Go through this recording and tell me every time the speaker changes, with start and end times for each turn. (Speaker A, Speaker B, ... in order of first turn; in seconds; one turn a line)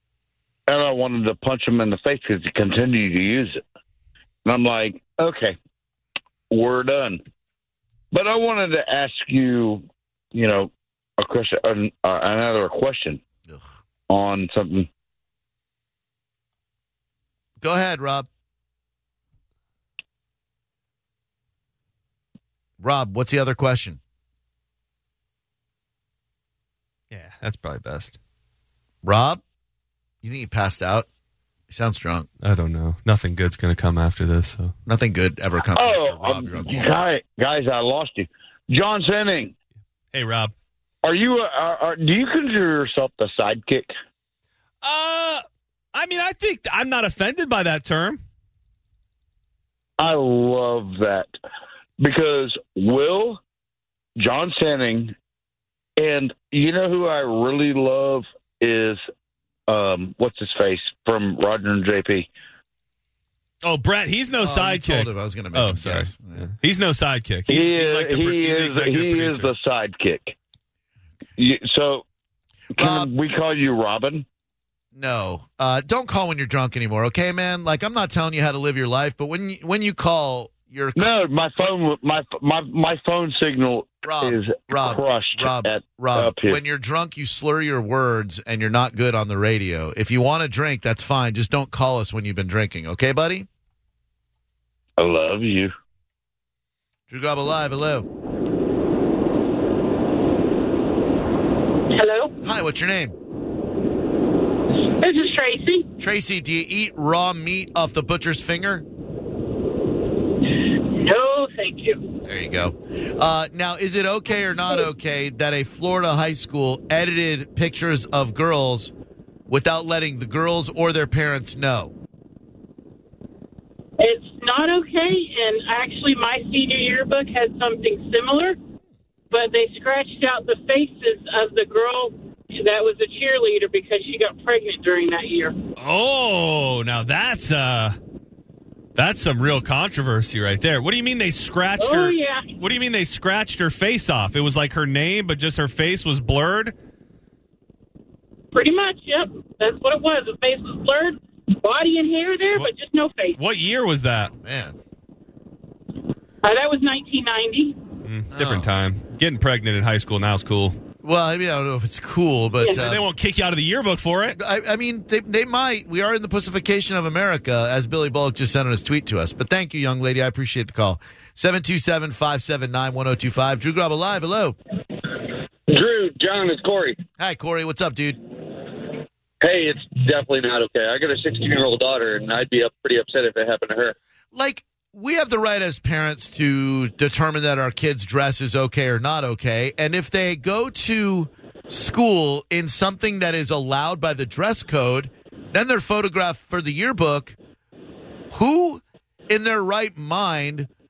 Speaker A: 0.7-3.6
Speaker A: 4.4-5.5
Speaker A: 6.5-7.2
Speaker A: 8.1-13.2
Speaker A: 14.1-14.9
Speaker B: 17.6-18.3
Speaker B: 22.8-24.0
Speaker C: 27.1-28.2
Speaker B: 29.0-29.4
Speaker B: 30.2-31.1
Speaker B: 31.7-32.3
Speaker C: 32.4-34.7
Speaker B: 34.9-36.9
Speaker A: 35.7-39.5
Speaker C: 40.1-40.5
Speaker A: 41.0-43.9
Speaker C: 44.8-48.2
Speaker A: 50.0-51.3
Speaker A: 52.0-53.4
Speaker A: 54.2-55.1
Speaker A: 56.0-59.0
Speaker A: 59.7-62.3
Speaker C: 63.6-69.5
Speaker B: 64.4-66.4
Speaker A: 67.5-70.3
Speaker A: 71.4-72.0
Speaker A: 72.8-74.2
Speaker B: 72.8-73.1
Speaker B: 74.9-81.1
Speaker A: 81.0-86.6
Speaker B: 84.0-93.5
Speaker A: 95.0-95.7
Speaker B: 97.1-98.0
Speaker D: 101.9-102.3
Speaker B: 102.4-103.2
Speaker D: 104.8-105.9
Speaker B: 106.0-108.8
Speaker D: 110.5-112.1
Speaker B: 112.2-118.9
Speaker B: 119.5-121.9
Speaker D: 124.0-128.6
Speaker D: 129.3-135.6
Speaker C: 135.8-137.9
Speaker C: 138.9-146.7
Speaker D: 141.8-142.5
Speaker D: 148.5-153.4
Speaker C: 153.4-154.3
Speaker B: 154.4-154.8
Speaker D: 156.4-157.8
Speaker C: 158.0-160.8
Speaker B: 158.3-158.7
Speaker B: 161.0-163.0
Speaker C: 162.7-164.4
Speaker B: 164.4-174.6
Speaker E: 175.7-177.0
Speaker B: 177.2-178.2
Speaker E: 179.4-183.9
Speaker B: 184.3-197.3
Speaker B: 198.3-200.7